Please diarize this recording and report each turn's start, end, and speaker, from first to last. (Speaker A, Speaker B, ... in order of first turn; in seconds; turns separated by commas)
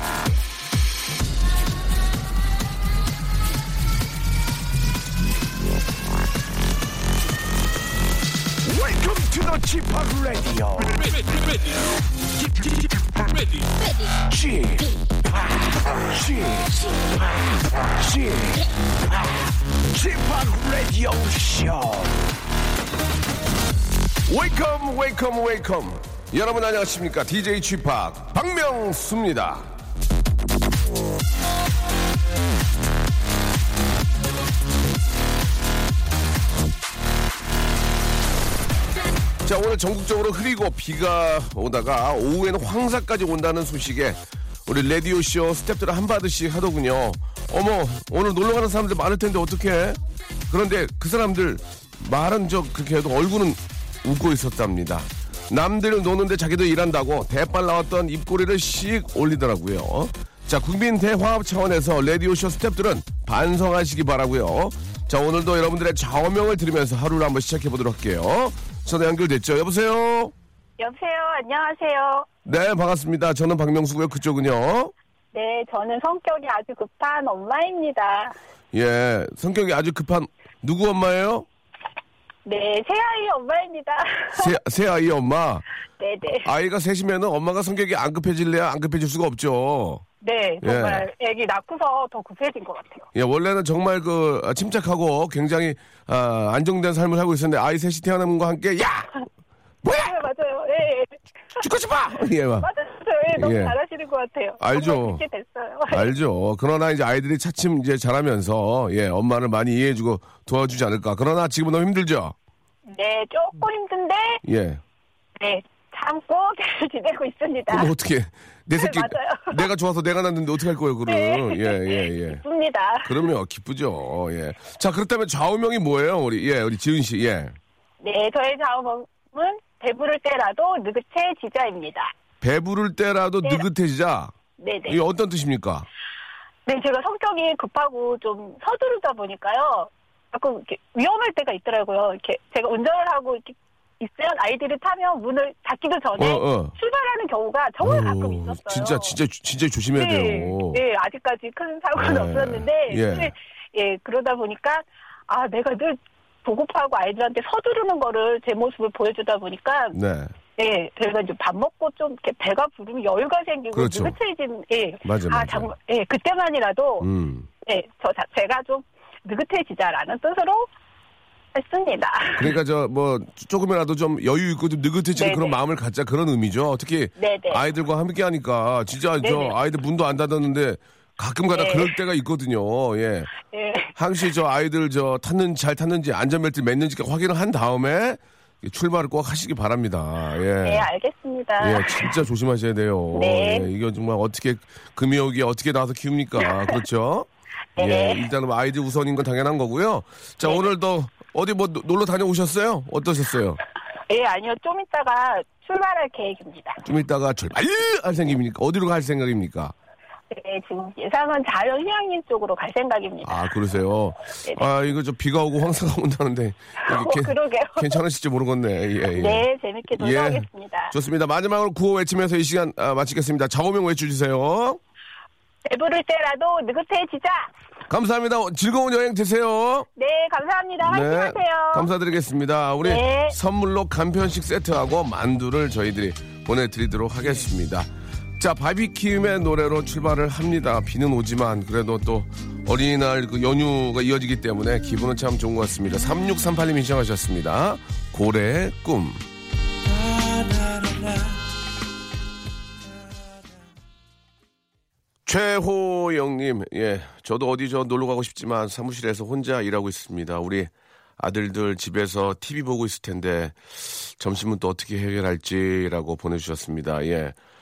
Speaker A: 8.7-11.2, Speaker A: 14.2-17.2, Speaker A: 17.8-18.6, Speaker A: 19.1-22.2, Speaker B: 24.3-29.7, Speaker B: 39.4-70.3, Speaker C: 70.8-72.3, Speaker B: 72.5-74.9, Speaker C: 75.3-78.3, Speaker B: 78.7-81.5, Speaker C: 82.5-84.5, Speaker B: 84.3-85.7, Speaker C: 86.0-86.5, Speaker B: 86.4-90.0, Speaker C: 90.2-93.1, Speaker B: 90.6-91.1, Speaker B: 93.2-99.2, Speaker B: 99.8-100.2, Speaker C: 99.8-101.6, Speaker B: 101.6-102.7, Speaker C: 102.6-106.1, Speaker B: 103.3-103.8, Speaker B: 104.6-105.2, Speaker B: 105.9-112.3, Speaker C: 112.9-114.4, Speaker B: 114.4-114.8, Speaker C: 115.4-117.9, Speaker B: 117.7-122.4, Speaker C: 118.8-119.7, Speaker C: 121.1-123.2, Speaker B: 123.0-127.6, Speaker C: 128.0-132.1, Speaker B: 132.4-134.3, Speaker C: 134.6-135.0, Speaker B: 134.9-135.9, Speaker C: 136.7-149.1, Speaker B: 146.2-146.7, Speaker B: 147.8-150.8, Speaker C: 149.9-160.0, Speaker B: 151.9-153.3, Speaker B: 159.9-160.3, Speaker C: 160.6-167.1, Speaker B: 163.7-164.2, Speaker B: 165.0-165.7, Speaker B: 167.0-167.5, Speaker C: 167.7-170.7, Speaker C: 171.6-172.6, Speaker B: 172.4-183.3, Speaker C: 175.2-175.5, Speaker C: 177.2-177.6, Speaker C: 179.2-179.6, Speaker C: 181.5-181.9, Speaker C: 183.5-183.9, Speaker B: 184.0-190.9, Speaker C: 190.6-192.2, Speaker B: 191.6-203.6, Speaker C: 193.1-193.7, Speaker C: 197.8-198.2, Speaker C: 200.4-200.7, Speaker C: 204.1-206.8, Speaker B: 206.8-209.7, Speaker C: 210.3-213.4, Speaker B: 213.2-224.8, Speaker C: 216.8-218.0, Speaker C: 219.1-220.9, Speaker C: 225.7-227.5, Speaker B: 227.9-229.9, Speaker C: 230.0-231.9, Speaker B: 230.8-249.2, Speaker C: 232.8-233.4, Speaker B: 250.7-251.0, Speaker B: 255.3-267.4